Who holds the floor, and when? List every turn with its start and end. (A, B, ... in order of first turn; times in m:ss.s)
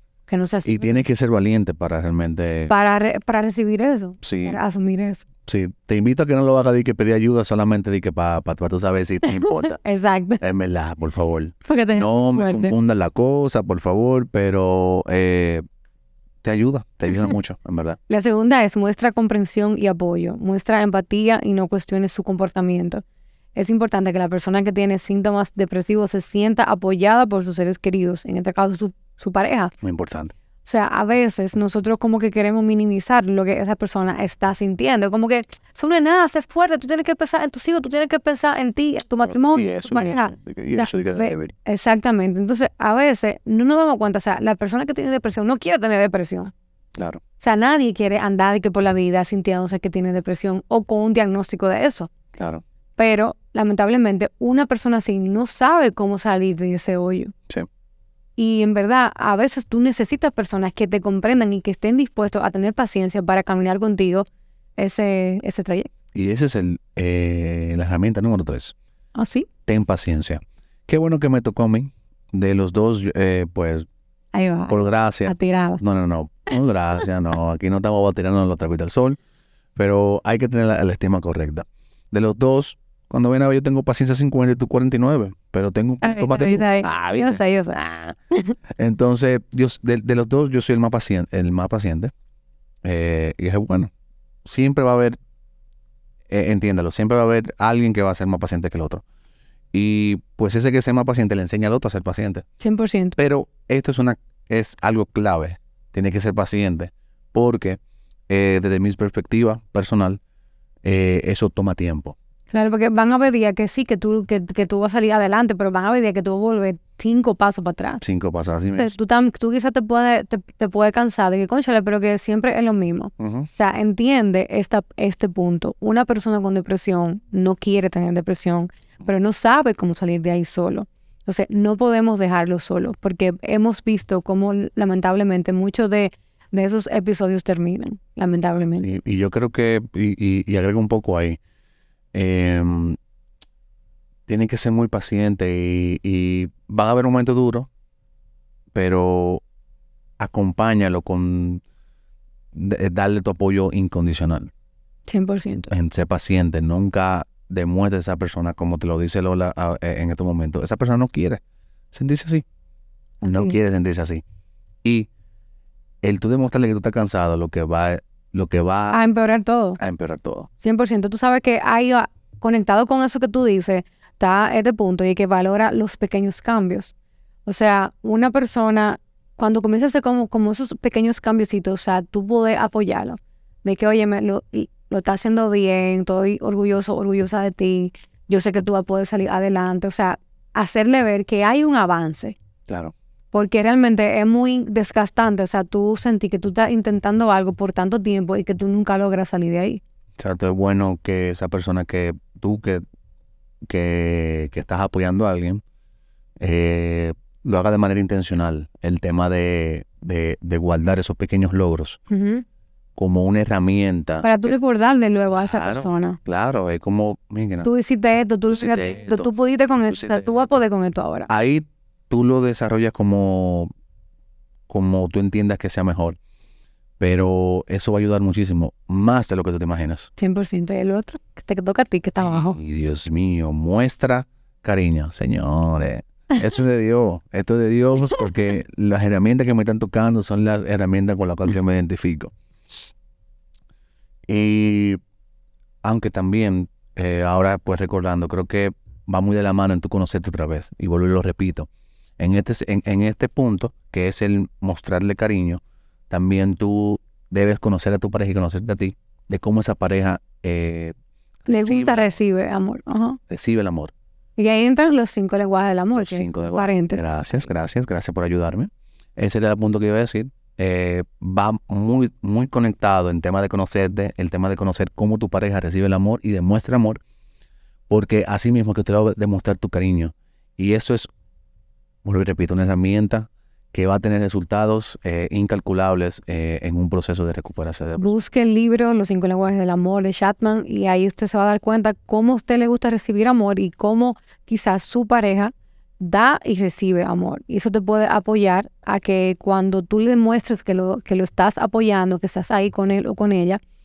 0:00.3-0:01.0 A
0:00.6-0:02.7 B
0:02.7-0:05.2 A
0:04.2-0:04.6 B
0:05.5-0:09.8 B
0:09.3-0:10.4 A
0:10.4-0:15.6 B
0:11.6-0:12.7 A
0:16.4-0:18.0 B
0:18.1-0:23.0 A
0:23.5-0:29.7 A
0:29.8-0:30.3 B
0:30.6-0:46.5 A
0:39.3-0:41.5 B
0:47.0-0:47.2 B
0:47.4-0:52.1 A
0:52.4-0:52.6 B
0:53.0-0:57.3 A
0:58.4-1:05.9 A
1:06.1-1:08.7 B
1:09.1-1:09.5 A
1:09.7-1:13.9 B
1:14.3-1:15.8 A
1:14.7-1:19.2 B
1:19.8-1:28.1 B
1:26.0-1:27.8 A
1:28.8-1:32.1 B
1:32.8-1:33.9 B
1:34.4-1:35.2 B
1:36.3-1:39.0 B
1:39.7-1:42.4 B
1:42.6-1:43.2 A
1:43.2-1:50.2 B
1:50.8-1:52.1 B
1:52.5-1:58.0 A
1:58.0-1:58.9 B
1:58.7-2:18.9 A
2:03.2-2:03.5 B
2:18.8-2:21.4 B
2:22.1-2:23.0 B
2:24.3-2:27.7 B
2:28.7-2:29.4 B
2:30.2-2:31.6 B
2:32.5-2:34.5 B
2:35.1-2:35.7 A
2:35.7-2:41.4 B
2:41.9-2:42.4 B
2:43.2-2:43.6 A
2:43.2-2:44.2 B
2:44.8-2:45.1 B
2:46.0-2:49.0 B
2:48.9-2:49.8 A
2:49.8-2:50.5 B
2:50.6-2:56.9 A
2:57.4-3:12.4 A
3:12.7-3:12.9 B
3:13.3-3:19.8 A
3:20.2-3:22.8 B
3:23.7-3:25.6 B
3:26.4-3:32.0 B
3:32.1-3:32.4 A
3:33.0-3:34.5 B
3:34.2-3:36.2 A
3:35.4-3:37.7 B
3:37.6-3:41.3 A
3:38.5-3:39.3 B
3:39.9-3:40.5 B
3:41.3-3:43.7 B
3:44.7-3:46.2 B
3:47.0-3:50.1 B
3:50.2-3:52.6 A
3:52.2-4:02.3 B
4:04.3-4:05.0 B
4:05.8-4:11.7 B
4:12.2-4:20.9 B
4:21.4-4:22.1 B
4:21.5-4:23.2 A
4:23.3-4:23.9 B
4:24.4-4:27.0 A
4:25.9-4:37.0 B
4:37.9-4:41.1 B
4:42.0-4:48.1 B
4:48.0-5:03.6 A